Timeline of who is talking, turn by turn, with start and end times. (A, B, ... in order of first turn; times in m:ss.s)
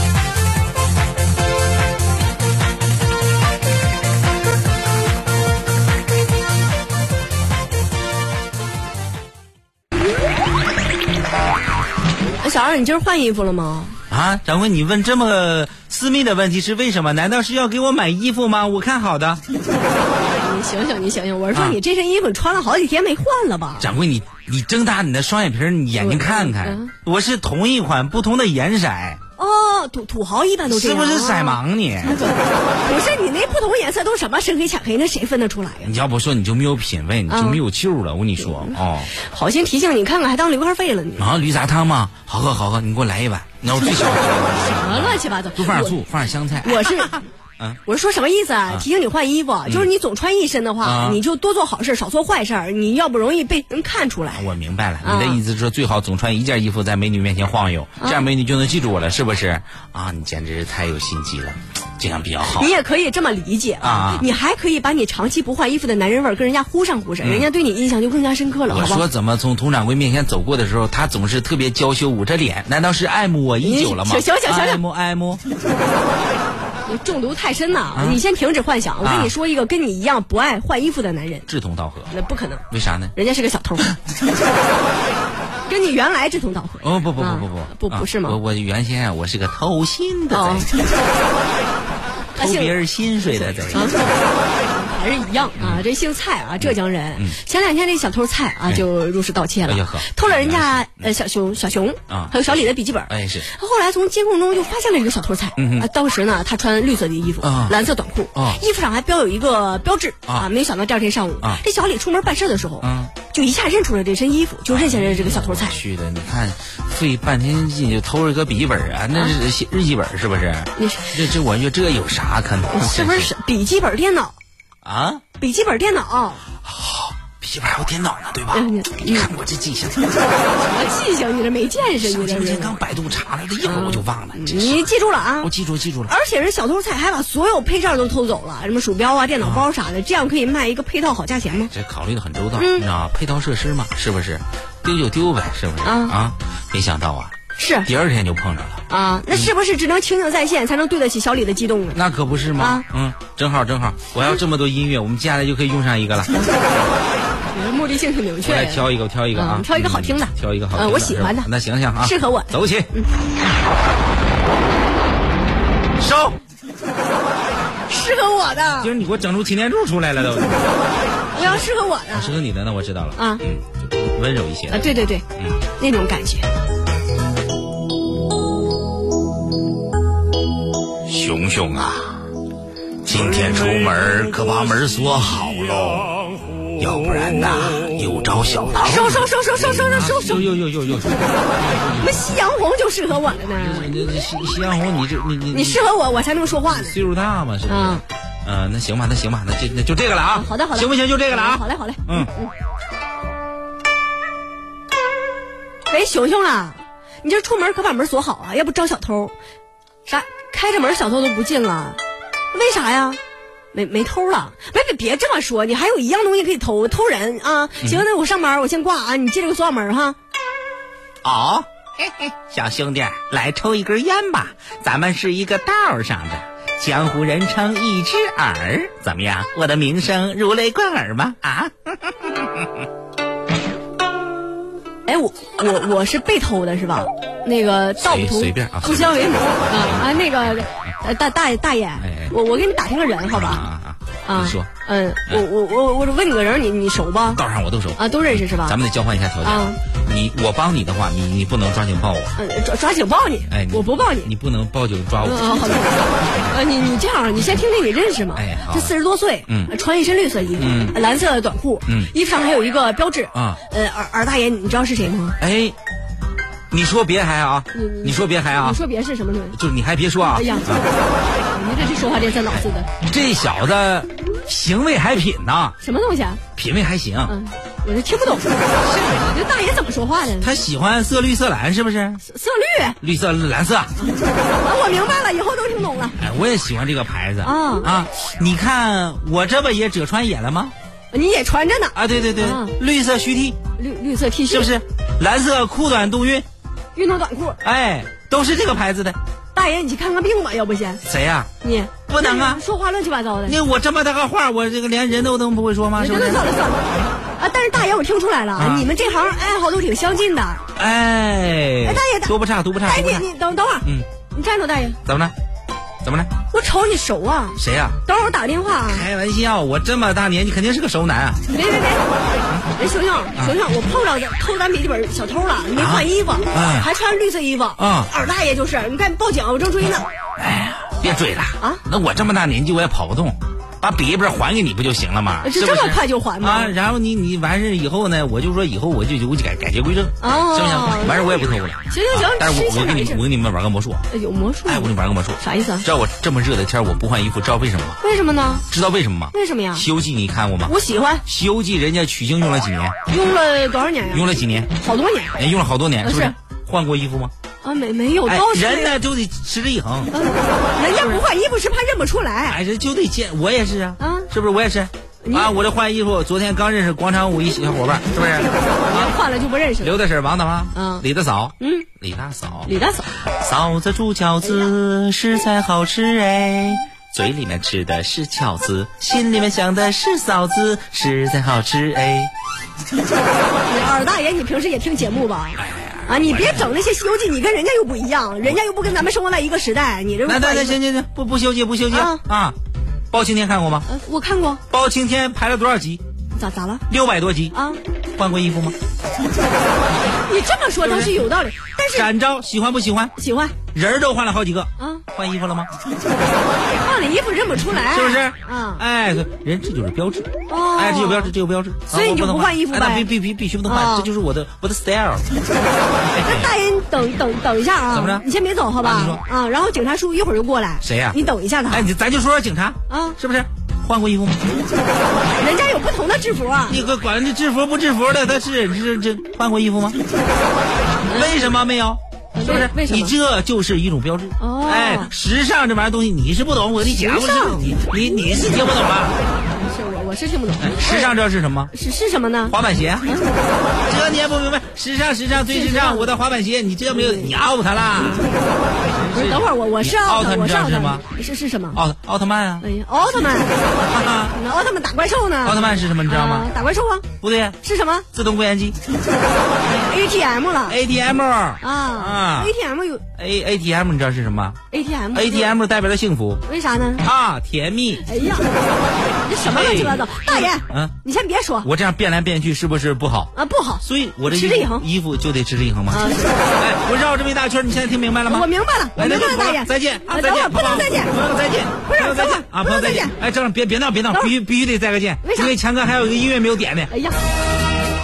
0:12.4-0:14.0 A
0:14.1-0:19.4 B
0:20.0-0:23.9 A
0:21.5-0:21.8 B
0:23.8-0:29.2 B
0:26.0-0:26.9 A
0:29.4-0:35.9 A
0:30.7-0:32.2 B
0:35.8-0:39.1 B
0:37.3-0:37.6 A
0:38.4-0:41.3 A
0:41.2-0:47.8 B
0:44.6-0:46.0 A
0:46.6-0:47.2 A
0:47.9-0:54.4 A
0:50.8-0:51.2 B
0:54.3-1:02.7 B
0:55.0-0:55.4 A
0:58.0-0:58.2 A
1:02.5-1:09.0 A
1:03.8-1:04.3 B
1:07.2-1:07.5 B
1:08.7-1:15.4 B
1:13.6-1:14.8 A
1:16.9-1:21.5 A
1:18.0-1:18.2 B
1:19.0-1:19.4 B
1:21.5-1:22.1 B
1:22.1-1:22.6 A
1:22.7-1:23.1 B
1:23.1-1:24.0 A
1:25.7-1:28.4 A
1:26.8-1:30.7 B
1:30.3-1:30.7 A
1:32.4-1:34.1 B
1:32.4-1:32.8 A
1:33.3-1:55.8 A
1:35.6-1:35.8 B
1:36.6-1:37.4 B
1:39.6-1:41.1 B
1:42.1-1:43.5 B
1:45.6-1:45.9 B
1:47.4-1:47.8 B
1:48.4-1:48.6 B
1:52.8-1:53.1 B
1:54.7-2:03.3 B
2:00.8-2:01.2 A
2:02.7-2:04.4 A
2:04.8-2:05.2 B
2:05.4-2:06.4 A
2:06.6-2:10.0 B
2:08.5-2:09.3 A
2:10.5-2:12.8 A
2:12.0-2:14.8 B
2:13.6-2:15.5 A
2:15.4-2:16.1 B
2:16.1-2:21.7 A
2:19.4-2:19.7 B
2:21.6-2:27.3 B
2:22.6-2:22.9 A
2:25.8-2:26.2 A
2:27.6-2:27.9 A
2:27.8-2:29.5 B
2:28.9-2:32.0 A
2:31.9-2:36.3 B
2:32.6-2:32.9 A
2:37.5-2:41.5 A
2:38.4-2:42.9 B
2:42.0-2:43.1 A
2:46.0-2:46.4 B
2:47.9-2:48.9 A
2:48.8-2:50.8 B
2:51.3-2:55.6 B
2:51.4-2:52.3 A
2:53.2-2:53.4 A
2:54.7-2:56.5 A
3:01.0-3:02.3 B
3:03.0-3:12.2 B
3:08.7-3:10.4 A
3:12.0-3:13.9 A
3:13.6-3:15.9 B
3:15.5-3:17.0 A
3:16.6-3:22.3 B
3:17.7-3:18.0 A
3:20.3-3:22.5 A
3:25.9-3:29.3 A
3:30.0-3:32.0 A
3:32.5-3:33.2 A
3:33.7-3:40.2 A
3:41.2-3:52.7 B
3:55.0-4:03.7 A
3:58.0-4:00.7 B
4:02.0-4:02.4 B
4:03.3-4:04.7 B
4:04.2-4:07.4 A
4:07.4-4:12.4 B
4:08.0-4:08.8 A
4:09.4-4:09.8 A
4:12.4-4:14.3 A
4:13.5-4:16.6 B
4:15.2-4:25.4 A
4:18.4-4:18.9 B
4:20.6-4:21.0 B
4:21.9-4:22.1 B
4:23.3-4:23.6 B
4:25.4-4:25.8 B
4:26.7-4:28.8 B
4:27.7-4:29.6 A
4:29.5-4:30.9 B
4:30.4-4:30.7 A
4:31.5-4:32.9 A
4:32.5-4:35.8 B
4:35.8-4:36.4 A
4:36.6-4:37.4 B
4:37.3-4:38.5 A
4:38.8-4:39.4 B
4:39.2-4:40.5 A
4:40.4-4:42.2 B
4:42.2-4:43.0 A
4:43.0-4:43.9 B
4:44.0-4:46.2 A
4:46.2-4:50.7 B
4:47.4-4:47.9 A
4:51.1-4:52.8 A
4:52.0-4:53.6 B
4:53.8-4:54.7 A
4:54.5-4:56.4 B
4:57.0-4:57.6 A
4:57.6-4:59.2 B
4:59.5-5:01.0 A
5:01.0-5:01.5 B
5:01.6-5:03.6 A
5:02.1-5:02.6 B
5:03.5-5:06.5 B
5:06.0-5:10.6 A
5:08.6-5:08.9 B
5:10.8-5:13.3 B
5:11.8-5:15.0 A
5:15.0-5:15.3 B
5:16.0-5:16.3 B
5:16.5-5:19.1 A
5:17.6-5:18.0 B
5:18.8-5:21.4 B
5:21.5-5:22.0 A
5:22.8-5:30.1 A
5:25.8-5:26.9 B
5:27.8-5:28.1 B
5:30.4-5:44.0 B
5:35.4-5:36.8 A
5:40.2-5:43.2 A
5:44.1-5:45.8 A
5:44.6-5:48.0 B
5:48.0-5:48.6 A
5:48.7-5:53.0 B
5:49.3-5:49.9 A
5:50.6-5:51.2 A
5:53.1-5:55.4 A
5:54.1-5:54.7 B
5:55.4-5:57.3 B
5:56.0-5:56.4 A
5:57.6-5:59.0 A
5:58.3-6:00.1 B
6:00.1-6:02.6 A
6:00.9-6:01.2 B
6:02.5-6:09.2 B
6:04.0-6:04.3 A
6:05.2-6:05.5 A
6:08.8-6:10.0 A
6:09.8-6:12.7 B
6:10.7-6:11.0 A
6:11.6-6:11.9 A
6:12.6-6:13.1 A
6:13.2-6:22.3 B
6:14.4-6:14.7 A
6:23.7-6:30.8 A
6:25.6-6:26.8 B
6:30.2-6:32.6 B
6:31.9-6:32.2 A
6:33.1-6:33.9 B
6:33.9-6:34.6 A
6:34.7-6:36.0 B
6:36.4-6:36.8 A
6:36.9-6:37.5 B
6:37.5-6:37.8 A
6:38.2-6:38.8 B
6:40.2-6:42.1 A
6:40.8-6:41.2 B
6:41.9-6:43.1 B
6:43.2-6:43.6 A
6:43.7-6:45.7 B
6:44.8-6:45.0 A
6:46.7-6:48.8 A
6:47.9-6:55.2 B
6:50.5-6:51.3 A
6:51.9-6:53.1 A
6:53.6-6:54.1 A
6:56.1-6:56.5 B
6:56.2-7:01.9 A
6:57.9-6:58.2 B
6:58.8-6:59.2 B
7:00.8-7:01.2 B
7:01.7-7:04.4 B
7:02.9-7:03.2 A
7:05.2-7:06.8 A
7:06.7-7:10.0 B
7:11.0-7:11.6 A
7:11.1-7:19.2 B
7:12.4-7:13.1 A
7:14.4-7:15.1 A
7:16.8-7:17.6 A
7:19.5-7:21.1 A
7:20.6-7:21.7 B
7:21.7-7:23.3 A
7:22.5-7:23.1 B
7:23.9-7:28.2 B
7:25.5-7:26.1 A
7:27.0-7:27.3 A
7:28.0-7:28.2 A
7:28.8-7:31.0 B
7:29.1-7:31.8 A
7:31.8-7:32.6 B
7:32.6-7:33.6 A
7:33.8-7:34.4 B
7:34.3-7:37.1 A
7:35.4-7:36.5 B
7:37.2-7:37.6 B
7:37.6-7:38.0 A
7:38.1-7:38.8 B
7:39.7-7:40.8 A
7:40.7-7:42.5 B
7:41.6-7:43.0 A
7:43.2-7:44.6 B
7:44.7-7:45.5 A
7:45.1-7:46.4 B
7:46.5-7:47.0 A
7:47.0-7:48.0 B
7:48.0-7:48.5 A
7:49.2-7:51.7 A
7:49.4-7:50.9 B
7:51.6-7:53.3 B
7:53.4-7:54.9 A
7:53.8-8:06.9 B
7:55.9-7:56.4 A
7:58.3-8:01.1 A
8:01.9-8:03.1 A
8:05.2-8:05.5 A
8:06.9-8:07.2 A